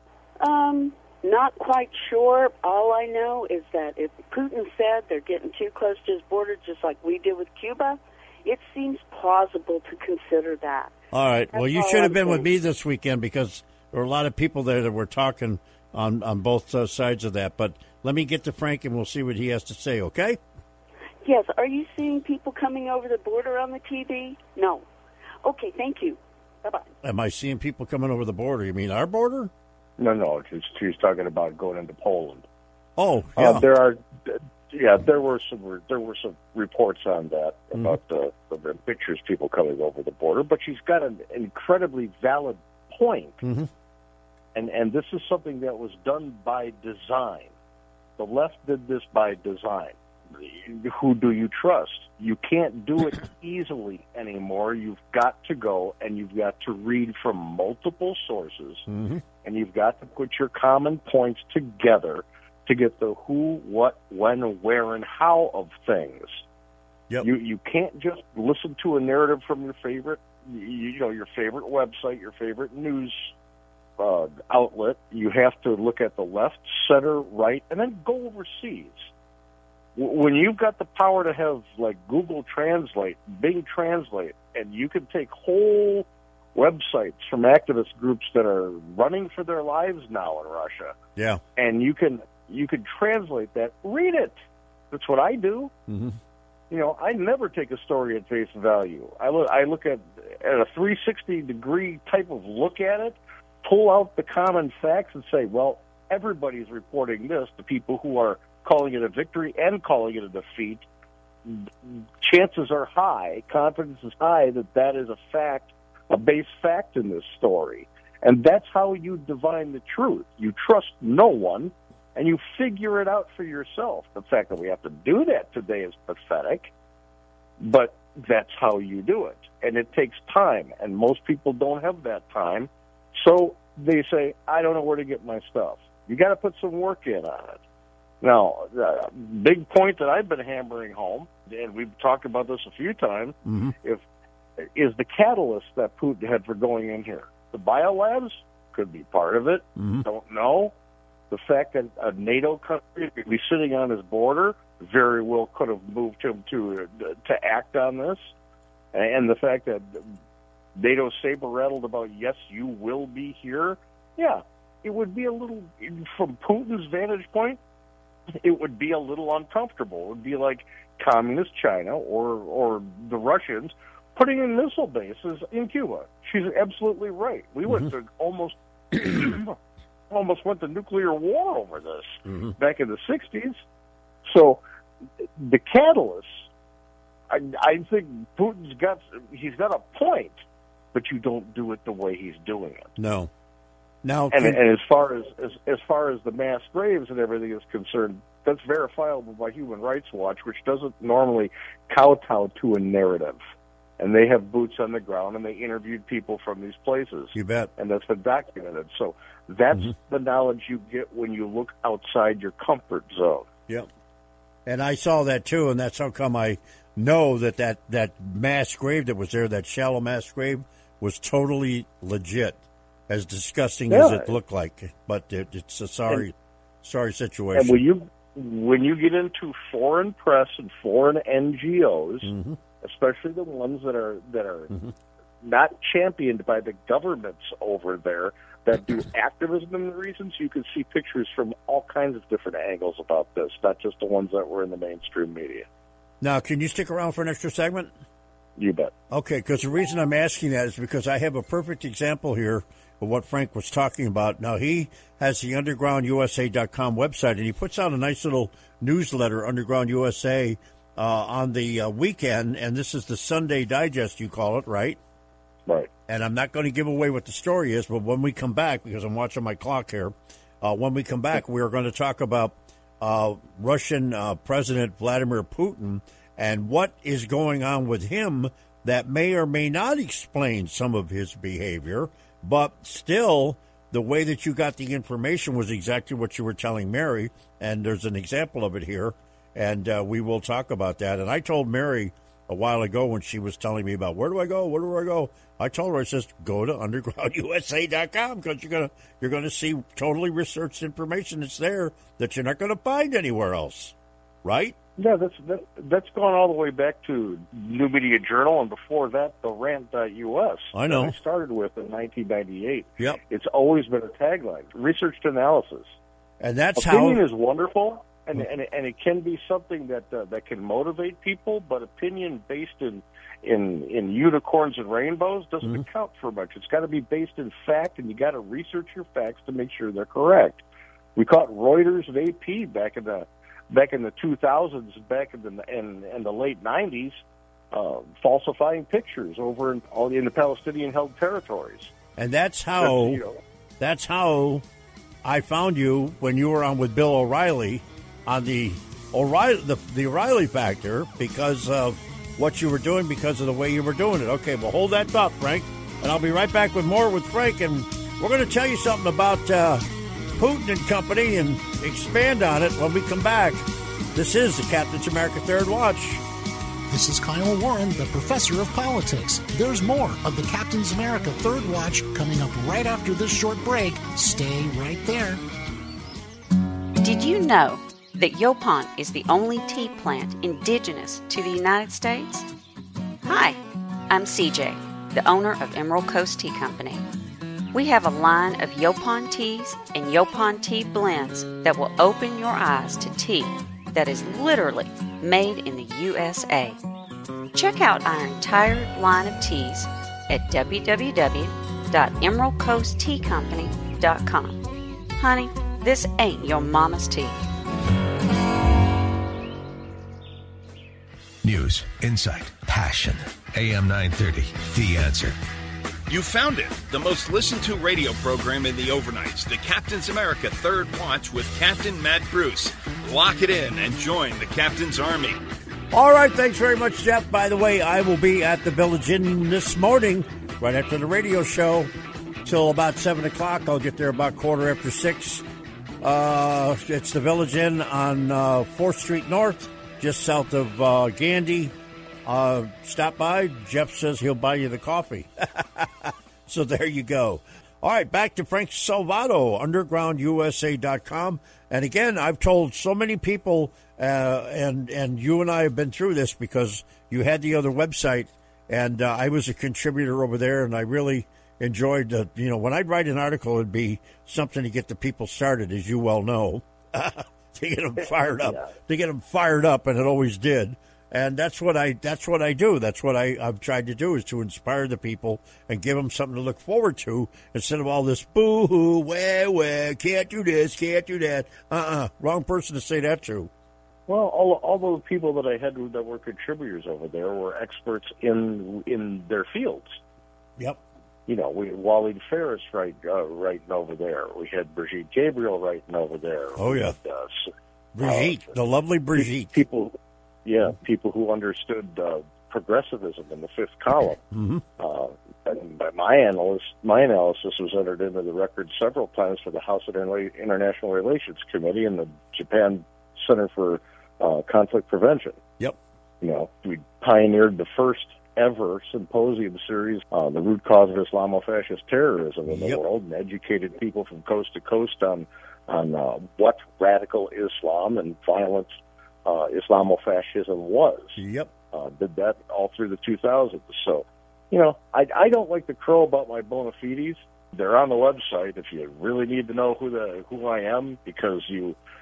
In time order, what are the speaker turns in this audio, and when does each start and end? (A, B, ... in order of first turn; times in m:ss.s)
0:00.4-0:10.9 A
0:11.1-0:20.4 B
0:11.5-0:12.5 A
0:21.2-0:24.8 A
0:25.4-0:26.9 A
0:27.0-0:29.5 B
0:30.0-0:32.4 C
0:33.0-0:33.7 B
0:33.4-0:43.4 C
0:43.4-0:43.7 B
0:44.5-0:47.5 C
0:48.2-0:58.9 C
0:58.9-0:59.2 B
0:59.4-1:06.4 C
1:07.2-1:13.3 C
1:14.0-1:19.1 C
1:20.0-1:31.0 C
1:31.2-1:31.4 B
1:31.6-1:34.4 C
1:34.9-1:35.7 C
1:35.9-1:36.2 B
1:36.7-1:50.8 C
1:51.5-2:06.7 C
2:07.6-2:17.6 C
2:18.2-2:24.0 C
2:23.5-2:23.7 B
2:24.6-2:30.7 C
2:29.8-2:30.1 B
2:31.3-2:38.3 C
2:38.9-2:40.1 C
2:40.8-2:47.6 C
2:48.4-2:59.6 C
3:00.1-3:03.6 C
3:02.2-3:02.5 B
3:04.2-3:04.6 C
3:05.4-3:06.5 C
3:07.3-3:10.4 C
3:10.9-3:12.9 C
3:13.0-3:13.3 B
3:14.0-3:14.6 B
3:14.3-3:23.4 C
3:24.0-3:33.5 C
3:27.4-3:27.7 B
3:34.6-3:47.8 B
3:43.9-3:44.3 C
3:47.5-3:54.7 C
3:52.2-3:52.6 B
3:55.4-4:05.6 C
4:06.2-4:07.9 B
4:08.6-4:08.9 C
4:09.1-4:25.0 B
4:25.6-4:25.9 C
4:26.1-5:04.8 B
5:05.0-5:16.0 C
5:10.7-5:11.2 B
5:16.4-5:17.2 B
5:16.8-5:30.6 C
5:31.2-5:37.2 C
5:37.7-5:41.9 C
5:42.2-5:43.2 B
5:42.8-5:43.4 C
5:43.8-5:44.6 B
5:45.2-5:59.8 B
6:00.4-6:03.6 B
6:04.1-6:06.2 B
6:06.9-6:15.4 D
6:17.0-6:22.4 E
6:23.2-6:23.6 E
6:24.1-6:27.0 E
6:27.7-6:36.8 E
6:37.5-6:44.6 E
6:45.2-6:47.4 E
6:51.4-6:55.4 F
6:56.1-7:05.4 G
7:05.9-7:11.9 B
7:12.4-7:15.4 B
7:16.0-7:21.7 B
7:22.2-8:03.5 B
7:48.3-7:48.7 C
8:04.1-8:10.0 C
8:11.3-8:17.5 C
8:16.6-8:17.0 B
8:18.0-8:19.6 B
8:18.0-8:18.5 C
8:19.2-8:24.2 C
8:24.3-8:24.6 B
8:24.8-8:35.4 C
8:36.2-8:51.2 C
8:42.5-8:42.8 B
8:51.2-8:51.5 B
8:51.7-9:01.8 C